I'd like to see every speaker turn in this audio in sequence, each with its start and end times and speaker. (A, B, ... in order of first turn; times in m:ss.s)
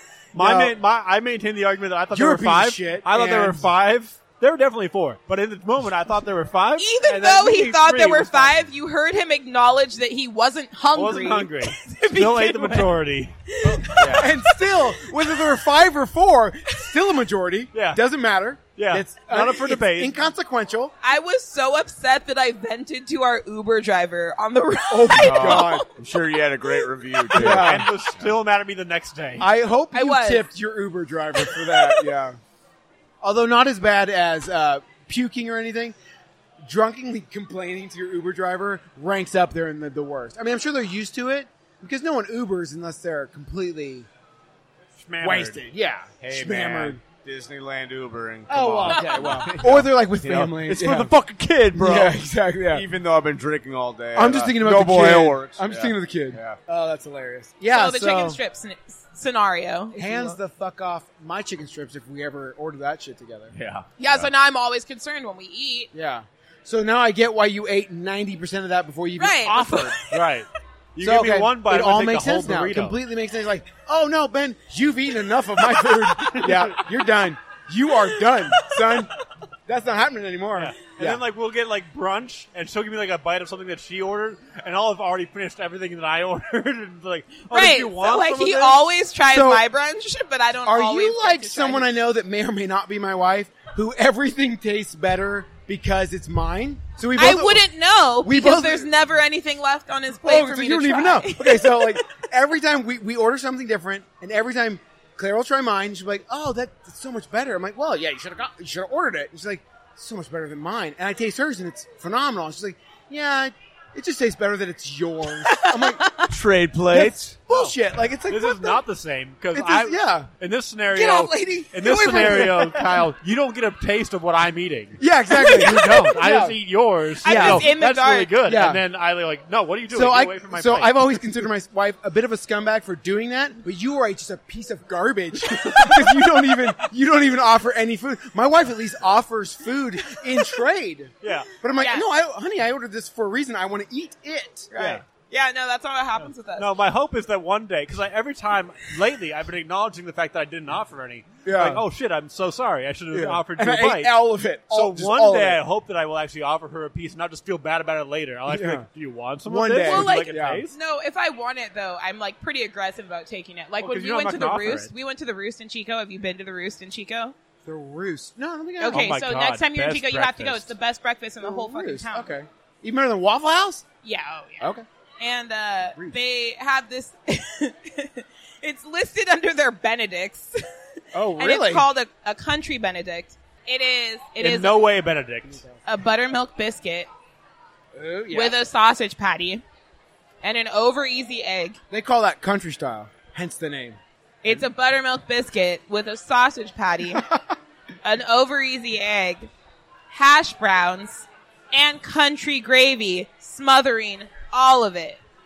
0:00.3-0:08.7 A
0:00.4-0:00.8 B
0:02.1-0:03.7 B
0:06.8-0:13.0 C
0:10.9-0:14.2 A
0:13.5-0:14.3 C
0:14.1-0:20.9 B
0:17.7-0:18.0 A
0:18.8-0:20.2 A
0:21.0-0:25.9 C
0:24.9-0:25.9 B
0:25.2-0:28.3 D
0:27.3-0:27.9 B
0:27.4-0:29.5 A
0:29.4-0:32.4 B
0:29.9-0:30.5 C
0:31.5-0:32.1 C
0:33.2-0:36.0 B
0:36.6-0:44.1 B
0:45.0-0:45.7 A
0:45.2-0:47.0 B
0:46.2-0:56.6 D
0:48.5-0:51.1 B
0:48.9-0:49.5 C
0:51.7-0:52.8 B
0:54.2-0:58.4 B
0:57.7-1:00.4 C
0:59.9-1:03.5 B
1:03.5-1:04.3 D
1:04.0-1:05.9 C
1:05.9-1:10.0 B
1:09.2-1:10.1 C
1:10.1-1:13.0 A
1:11.0-1:19.1 B
1:19.7-1:21.2 B
1:20.6-1:28.9 A
1:27.5-1:31.9 C
1:29.3-1:29.7 B
1:30.7-1:37.7 B
1:37.2-1:42.0 C
1:38.2-1:38.9 B
1:40.2-1:56.1 B
1:55.5-1:56.3 C
1:56.3-1:57.3 D
1:56.9-1:58.8 B
1:57.5-1:57.8 A
1:58.3-2:11.2 A
1:59.5-2:00.3 B
2:00.9-2:03.0 B
2:05.0-2:06.6 B
2:05.4-2:05.9 C
2:07.2-2:08.4 C
2:07.3-2:07.8 B
2:08.4-2:08.8 B
2:09.9-2:25.0 B
2:15.8-2:16.1 A
2:21.2-2:21.5 A
2:21.8-2:22.1 C
2:24.7-2:26.7 C
2:24.8-2:25.0 A
2:26.2-2:34.1 A
2:31.4-2:31.8 B
2:33.1-2:35.6 B
2:34.7-2:40.8 A
2:38.5-2:38.8 B
2:39.5-2:40.6 B
2:39.8-2:47.3 C
2:43.8-2:44.9 A
2:47.6-2:49.1 B
2:48.8-2:52.4 C
2:48.9-2:50.7 A
2:51.4-2:53.9 B
2:54.0-3:00.6 C
3:01.1-3:01.9 B
3:01.4-3:04.8 C
3:04.4-3:05.6 A
3:05.5-3:05.8 B
3:05.9-3:07.1 C
3:08.0-3:08.7 B
3:08.3-3:09.6 C
3:10.4-3:11.8 C
3:11.9-3:14.0 B
3:14.4-3:17.2 C
3:18.0-3:19.5 C
3:20.1-3:25.2 C